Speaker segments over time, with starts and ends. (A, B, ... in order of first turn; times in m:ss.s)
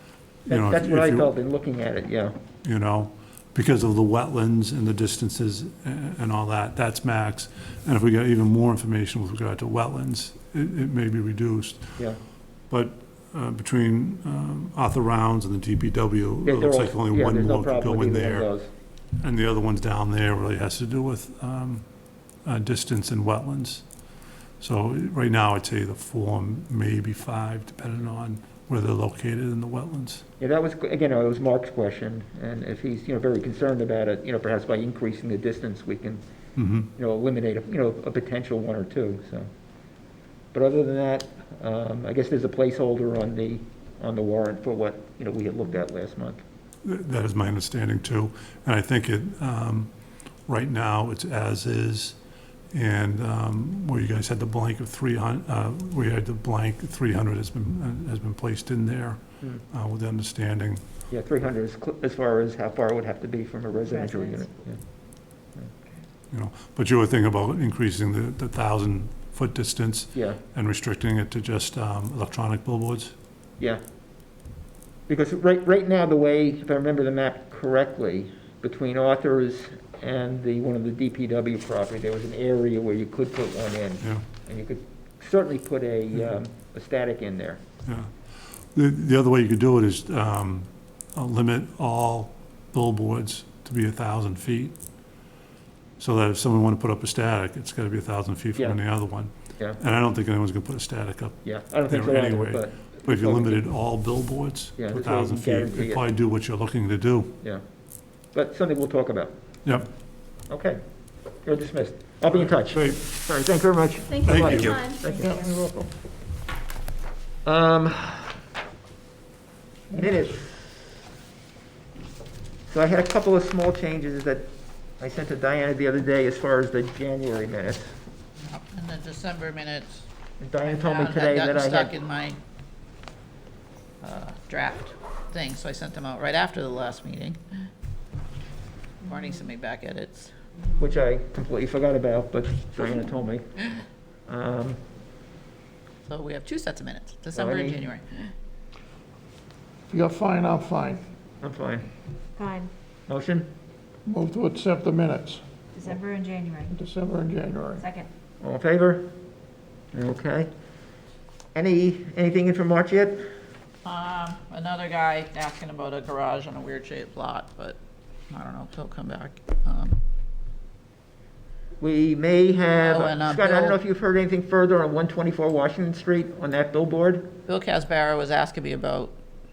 0:00.5-0:02.3 A
0:00.5-0:01.3 B
0:02.6-0:12.0 B
0:12.7-0:18.5 B
0:16.4-0:18.7 A
0:19.2-0:21.8 B
0:22.4-0:23.8 B
0:24.6-0:30.2 B
0:30.4-0:36.2 A
0:36.6-0:36.9 B
0:36.9-0:39.5 A
0:40.5-0:46.4 A
0:46.8-0:49.9 B
0:50.4-0:52.2 B
0:52.7-1:00.8 B
1:01.1-1:04.8 A
1:04.1-1:04.4 C
1:06.3-1:13.1 B
1:10.1-1:10.4 A
1:15.1-1:27.6 A
1:28.7-1:34.7 B
1:36.0-1:47.3 B
1:38.5-1:38.8 A
1:41.4-1:43.6 A
1:44.8-1:46.0 A
1:48.3-1:49.3 A
1:50.5-1:50.8 A
1:51.4-1:55.8 A
1:52.6-1:53.0 B
1:54.2-1:55.4 C
1:54.2-1:54.8 B
1:55.2-1:55.5 D
1:57.4-1:58.4 A
1:59.9-2:00.2 D
1:59.9-2:00.8 A
2:02.7-2:08.0 A
2:08.4-2:10.0 E
2:10.4-2:11.9 A
2:10.6-2:12.4 E
2:14.0-2:17.7 E
2:19.0-2:20.3 E
2:20.8-2:23.4 A
2:24.3-2:24.8 A
2:26.0-2:28.3 E
2:27.3-2:27.8 A
2:29.9-2:31.0 D
2:31.4-2:31.9 A
2:32.4-2:32.7 C
2:33.1-2:33.5 A
2:34.0-2:35.4 D
2:35.8-2:36.7 C
2:36.7-2:37.8 D
2:37.8-2:38.1 C
2:38.4-2:39.1 A
2:39.9-2:40.5 A
2:41.5-2:43.2 A
2:43.8-2:47.8 E
2:48.3-2:50.0 E
2:51.8-2:57.3 A
2:52.8-2:53.8 E
2:57.5-2:59.2 E